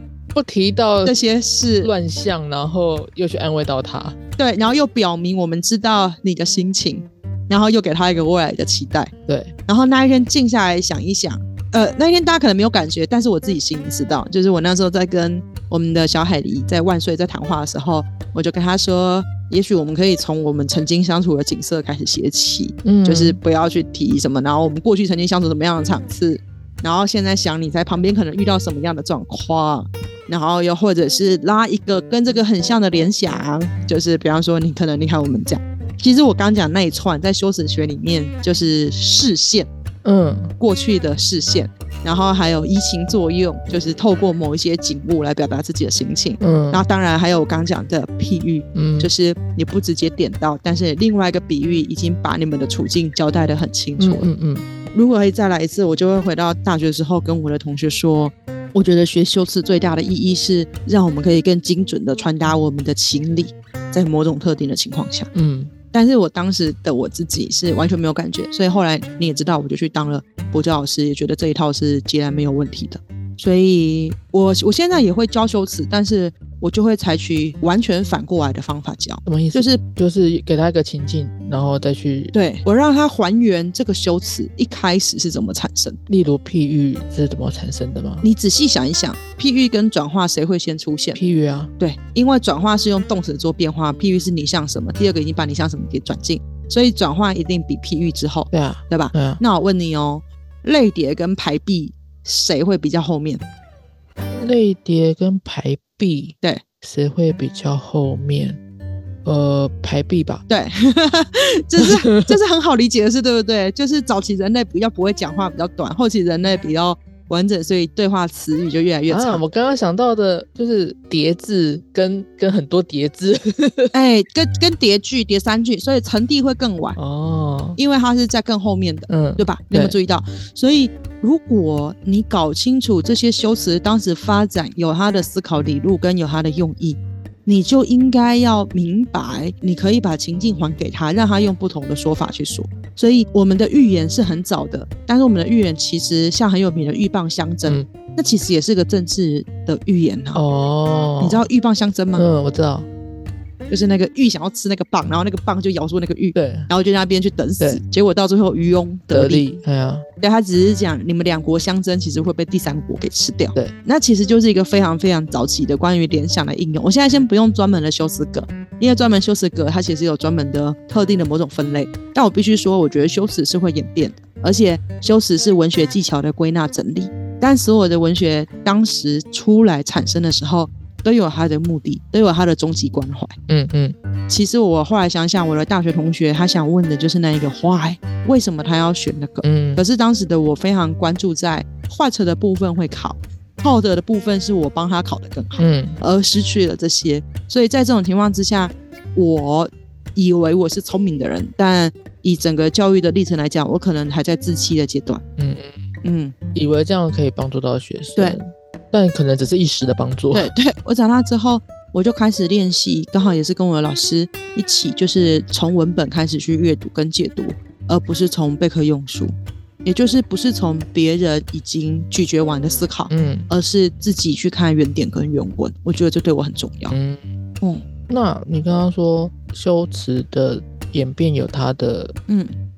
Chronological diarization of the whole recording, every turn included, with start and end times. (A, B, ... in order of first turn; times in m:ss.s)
0:00.3-0:01.2 A
0:01.0-0:01.9 B
0:01.8-0:04.2 A
0:04.4-0:09.1 B
0:09.3-0:09.5 A
0:09.7-0:39.7 B
0:22.8-0:23.4 A
0:40.0-0:40.5 A
0:40.6-0:54.2 B
0:46.4-0:46.8 A
0:48.7-0:49.1 A
0:54.0-0:54.6 A
0:54.9-1:05.3 B
1:05.3-1:05.7 A
1:05.9-1:19.8 B
1:19.2-1:22.3 A
1:22.3-1:26.0 B
1:26.1-1:28.2 A
1:28.2-1:31.2 B
1:31.1-1:31.7 A
1:31.8-1:43.4 B
1:38.5-1:39.4 A
1:44.3-1:48.6 A
1:49.2-1:50.4 A
1:50.5-1:59.4 B
1:51.8-1:52.3 A
1:59.1-2:03.9 A
2:03.9-2:07.0 B
2:07.0-2:07.8 A
2:07.8-2:30.4 B
2:09.1-2:10.0 A
2:30.3-2:31.5 A
2:31.2-2:32.2 B
2:32.2-2:32.9 A
2:33.7-2:39.6 B
2:36.3-2:36.7 A
2:39.1-2:40.0 A
2:40.2-3:03.3 B
3:03.5-3:03.9 A
3:04.3-3:25.2 B
3:09.4-3:09.8 A
3:15.6-3:16.0 A
3:25.4-3:25.8 A
3:26.0-3:26.3 B
3:26.5-3:30.5 A
3:30.3-3:46.9 B
3:43.1-3:43.5 A
3:46.9-3:47.4 A
3:48.1-3:52.2 A
3:52.3-3:52.5 B